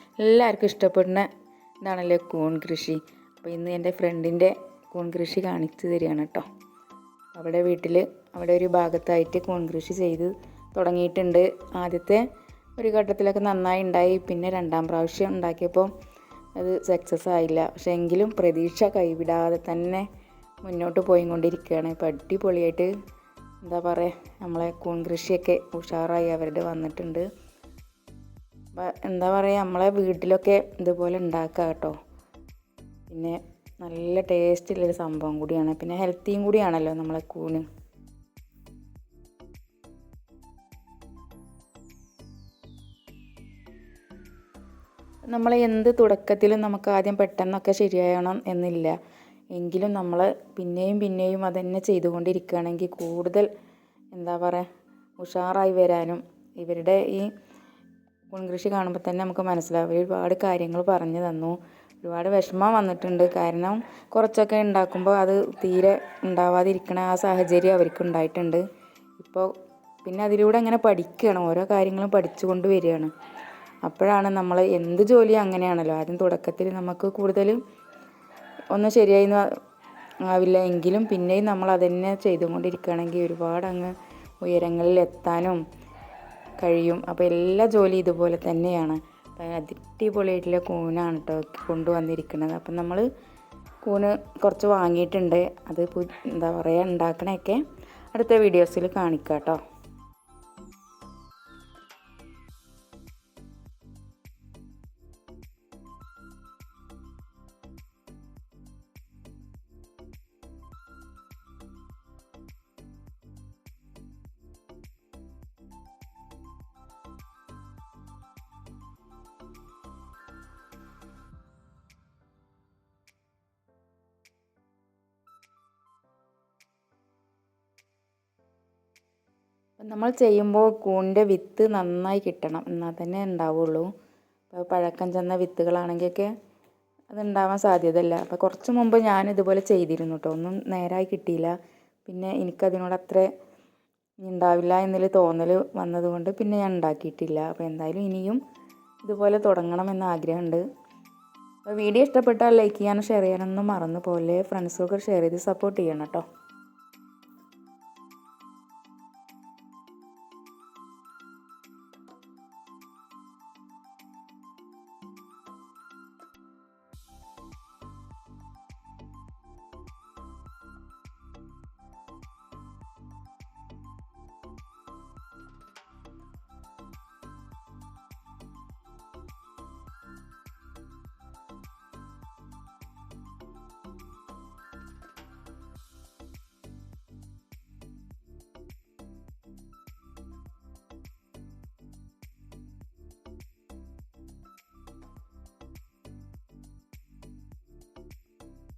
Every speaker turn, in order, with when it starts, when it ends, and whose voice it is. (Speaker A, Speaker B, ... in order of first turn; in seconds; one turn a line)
Speaker A: 0.2-1.3
Speaker A: 1.8-6.5
Speaker A: 7.3-12.2
Speaker A: 12.8-15.9
Speaker A: 16.6-20.1
Speaker A: 20.6-22.9
Speaker A: 23.6-27.3
Speaker A: 28.8-31.9
Speaker A: 33.1-37.6
Speaker A: 45.3-49.0
Speaker A: 49.5-53.5
Speaker A: 54.1-54.6
Speaker A: 55.2-57.3
Speaker A: 58.3-68.6
Speaker A: 69.2-69.5
Speaker A: 70.0-73.1
Speaker A: 73.8-77.6
Speaker A: 78.7-79.5
Speaker A: 80.2-85.6
Speaker A: 86.6-93.0
Speaker A: 93.8-97.6
Speaker A: 98.1-99.6
Speaker A: 129.8-133.9
Speaker A: 134.5-136.3
Speaker A: 137.1-141.5
Speaker A: 142.1-143.3
Speaker A: 144.2-148.4
Speaker A: 149.0-150.6
Speaker A: 151.7-156.2